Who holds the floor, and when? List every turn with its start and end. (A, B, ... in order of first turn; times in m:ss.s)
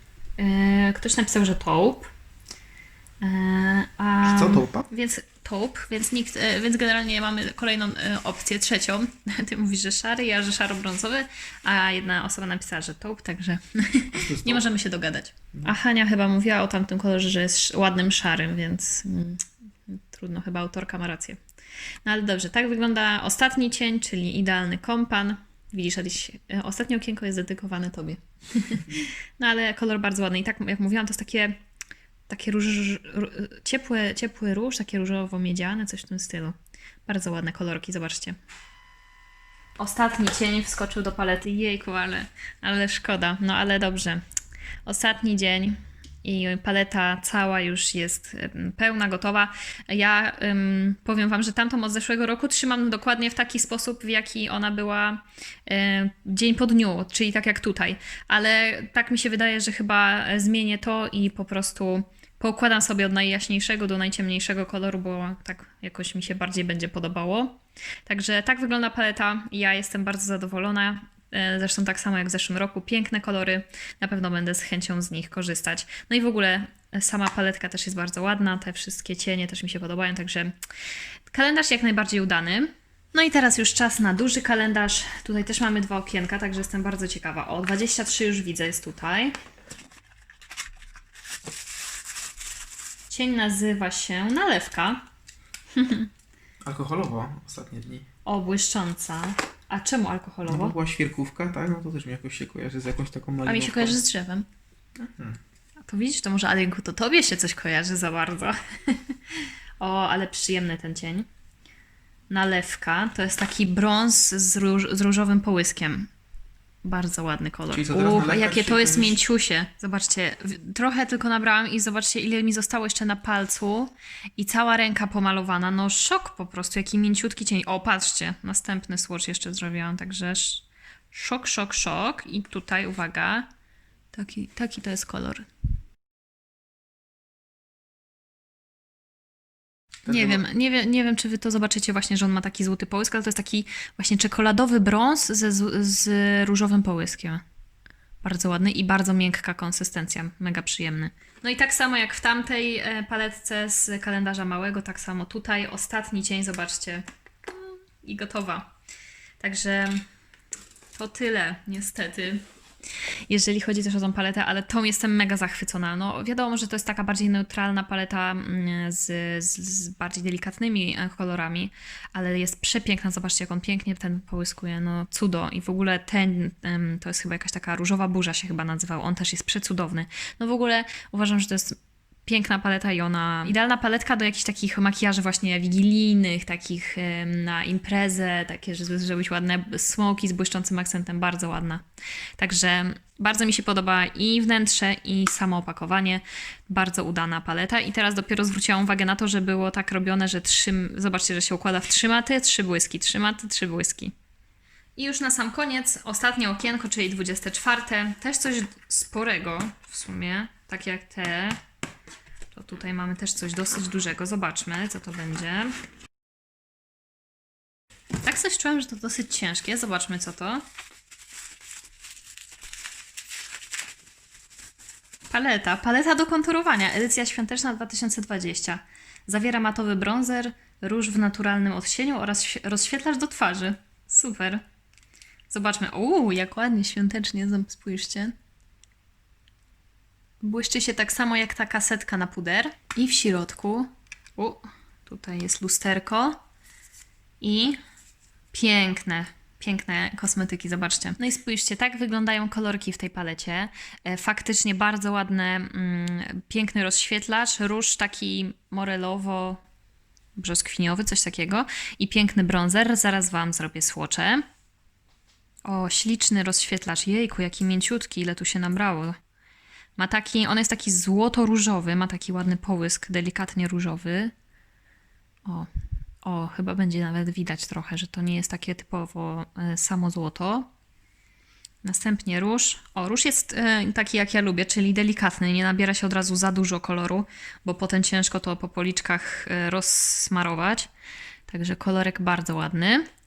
0:00.4-0:02.1 A
0:03.2-0:21.4 A
0:04.2-0:04.9 B
0:14.1-0:14.7 B
0:22.0-0:31.6 A
0:32.3-0:38.4 A
0:39.8-0:44.2 A
0:44.8-1:20.5 A
1:21.3-1:29.3 A
1:33.1-1:35.0 A
1:35.7-1:36.1 A
1:36.6-1:38.0 B
1:38.2-1:40.7 A
1:40.5-1:44.0 B
1:43.4-1:44.5 A
1:45.0-1:45.4 B
1:45.8-1:51.3 A
1:52.3-1:56.1 A
1:56.8-2:13.5 A
1:57.7-1:59.2 B
2:14.1-2:15.5 A
2:20.0-2:20.4 B
2:20.1-2:27.4 A
2:28.2-2:38.7 A
2:39.4-2:40.0 A
2:41.0-2:42.4 A
2:43.3-3:11.8 A
3:12.4-3:24.1 A
3:25.0-3:31.6 A
3:32.5-3:35.7 A
3:38.2-3:40.6 A
3:45.3-3:54.6 A
3:55.5-3:58.3 A
4:00.4-4:06.4 A
4:07.4-4:07.8 A
4:08.5-4:19.6 A
4:20.4-4:24.4 A
4:25.6-4:29.2 A
4:30.0-4:34.3 A
4:36.2-4:40.7 A
4:41.8-4:50.9 A
4:51.5-4:53.1 A